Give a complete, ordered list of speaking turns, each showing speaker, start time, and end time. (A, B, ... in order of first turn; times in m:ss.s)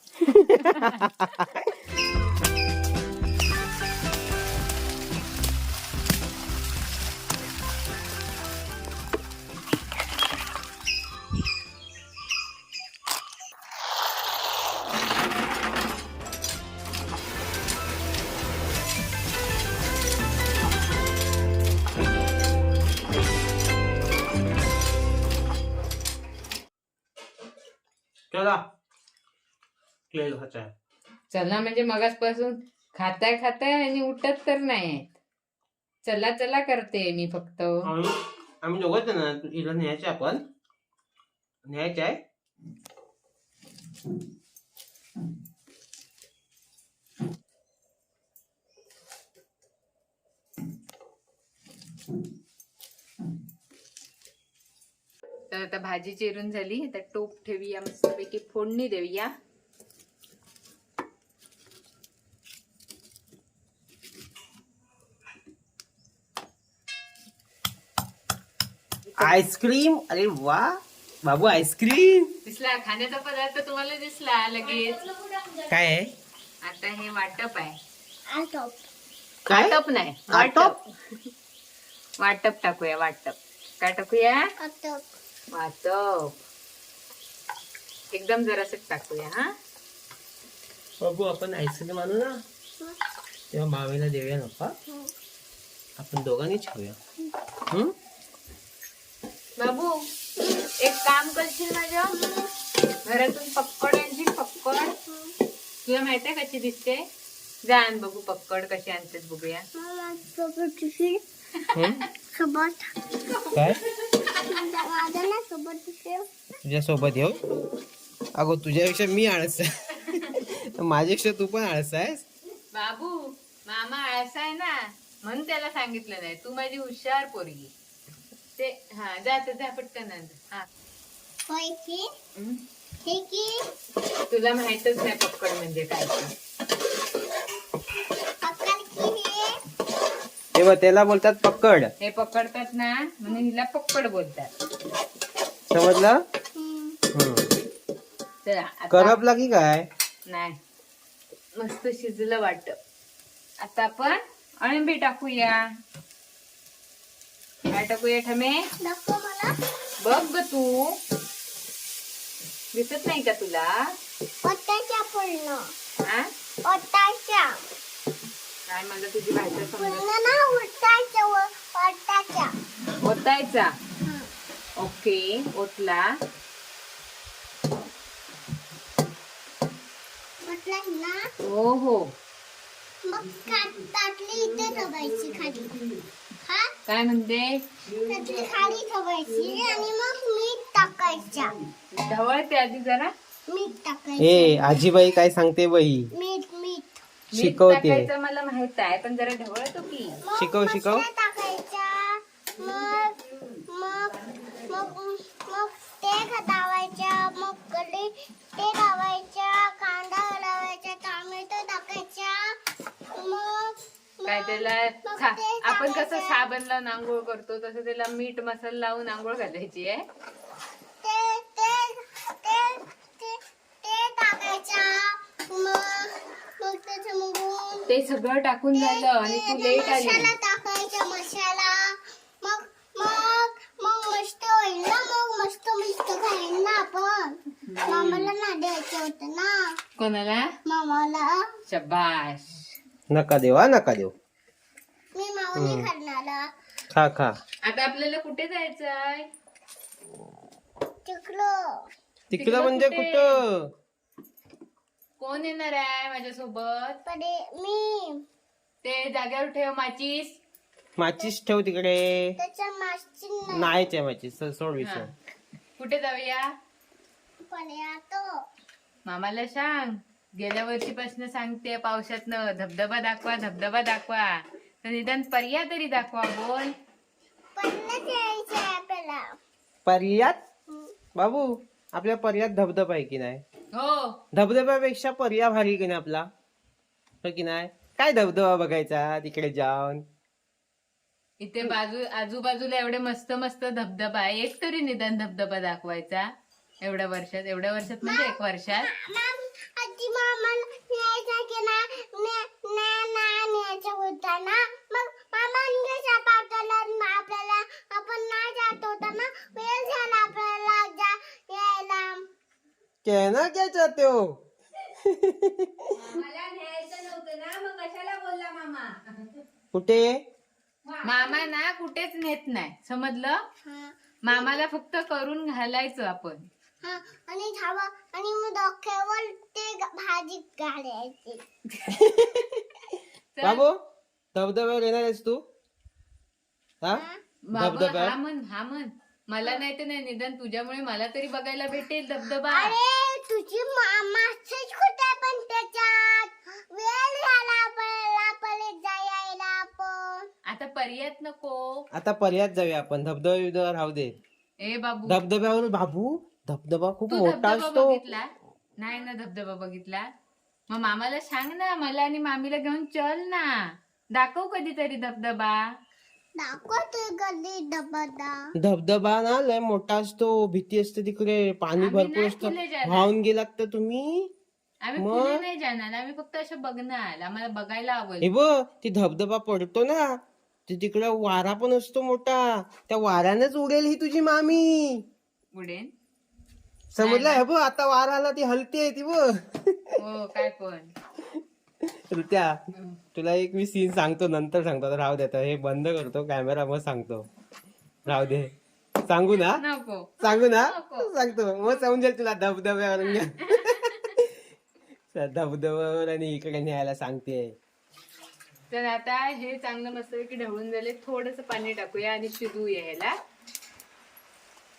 0:00.3-0:01.7 A
0:00.6-0:01.2 B
0:28.3-0:28.6 A
0:30.1-0:30.7 A
0:31.3-0:35.2 B
0:36.0-0:37.9 B
0:37.8-0:40.4 A
0:41.6-0:42.2 A
0:55.5-0:59.3 B
1:09.2-1:12.3 A
1:12.4-1:15.1 B
1:15.6-1:16.1 A
1:16.6-1:17.8 B
1:18.3-1:18.8 C
1:19.5-1:19.8 A
1:19.5-1:20.9 B
1:20.3-1:20.7 A
1:22.2-1:24.4 B
1:24.6-1:25.1 C
1:25.5-1:26.4 B
1:28.1-1:29.5 B
1:31.0-1:32.4 A
1:33.5-1:34.8 A
1:34.9-1:35.1 C
1:36.0-1:37.0 A
1:39.6-1:39.9 B
1:40.8-1:42.2 B
1:42.1-1:42.5 C
1:43.0-1:44.9 B
1:45.1-1:45.4 C
1:45.8-1:47.0 B
1:47.7-1:49.6 B
1:49.8-1:51.2 C
1:51.7-1:52.0 A
1:52.3-1:52.9 C
1:53.5-1:53.8 A
1:54.5-1:56.3 C
1:56.6-1:57.4 A
1:57.5-1:57.8 C
1:58.4-2:02.2 A
2:02.7-2:07.7 B
2:08.6-2:10.7 B
2:11.5-2:12.1 C
2:13.0-2:13.6 C
2:14.3-2:16.3 B
2:18.4-2:19.6 C
2:20.6-2:21.9 A
2:22.0-2:24.5 B
2:25.7-2:26.2 A
2:26.6-2:27.0 C
2:27.1-2:27.5 A
2:28.4-2:29.2 B
2:28.9-2:29.9 A
2:30.3-2:30.6 B
2:31.6-2:32.8 B
2:33.6-2:35.6 B
2:37.7-2:38.6 B
2:38.8-2:39.6 C
2:40.0-2:41.0 B
2:42.7-2:43.7 B
2:44.4-2:45.7 C
2:46.6-2:47.6 C
2:48.7-2:50.1 B
2:49.6-2:52.5 C
2:53.0-2:53.7 B
2:54.0-2:54.3 C
2:54.8-2:56.1 B
3:00.4-3:01.2 C
3:01.4-3:02.1 B
3:03.0-3:05.8 C
3:06.4-3:06.7 C
3:06.9-3:07.6 B
3:08.1-3:11.6 C
3:08.1-3:08.6 A
3:11.9-3:13.1 B
3:13.5-3:14.6 C
3:14.2-3:16.1 A
3:16.1-3:17.0 C
3:17.3-3:20.2 B
3:17.4-3:18.1 A
3:20.2-3:32.6 C
3:20.4-3:21.1 A
3:33.1-3:36.5 C
3:34.3-3:40.0 B
3:41.0-3:47.9 C
3:47.9-3:50.3 B
3:48.7-3:59.8 C
3:57.7-3:58.3 B
4:00.0-4:00.5 B
4:00.7-4:01.5 C
4:01.7-4:02.7 B
4:03.1-4:04.1 A
4:05.2-4:06.5 C
4:05.6-4:05.9 A
4:06.9-4:07.4 A
4:07.6-4:09.3 B
4:11.1-4:11.9 C
4:12.3-4:13.7 A
4:12.3-4:13.4 B
4:15.2-4:17.0 B
4:17.1-4:18.2 C
4:18.8-4:20.4 B
4:21.0-4:22.4 A
4:22.4-4:23.7 C
4:23.5-4:25.1 A
4:24.8-4:25.1 B
4:25.8-4:26.5 B
4:27.5-4:28.3 C
4:29.1-4:36.7 B
4:37.6-4:39.4 C
4:39.9-4:40.4 A
4:40.7-4:40.9 C
4:41.2-4:43.4 A
4:43.7-4:44.2 B
4:44.3-4:46.3 A
4:47.2-4:50.0 A
4:51.4-4:56.3 B
4:56.8-4:58.9 B
4:58.0-5:12.2 C
5:13.0-5:14.4 A
5:15.0-5:16.1 A
5:16.2-5:19.0 B
5:19.7-5:20.1 A
5:21.0-5:23.4 B
5:23.6-5:24.6 C
5:24.3-5:26.5 B
5:26.8-5:31.4 C
5:31.9-5:32.7 A
5:33.4-5:33.6 B
5:33.4-5:33.8 A
5:34.4-5:35.4 A
5:36.9-5:37.2 C
5:37.5-5:42.8 B
5:37.5-5:38.2 A
5:42.5-5:50.3 C
5:50.5-5:51.9 B
5:51.9-5:54.2 A
5:54.6-5:55.2 B
5:55.1-5:58.0 A
5:57.1-5:58.3 B
5:58.8-6:00.1 B
6:00.7-6:03.6 B
6:04.1-6:05.6 B
6:06.4-6:08.5 C
6:08.6-6:14.3 A
6:11.8-6:13.1 B
6:14.8-6:18.3 B
6:15.0-6:15.4 A
6:18.2-6:20.2 A
6:20.7-6:25.0 A
6:25.5-6:25.9 B
6:27.0-6:30.0 A
6:27.0-6:27.4 B
6:30.0-6:30.9 B
6:31.8-6:32.6 A
6:33.1-6:37.3 A
6:38.1-6:38.5 A
6:39.1-6:39.6 A
6:39.4-6:41.1 B
6:40.2-6:44.4 A
6:43.0-6:44.2 B
6:45.1-6:47.5 A
6:48.7-6:53.2 B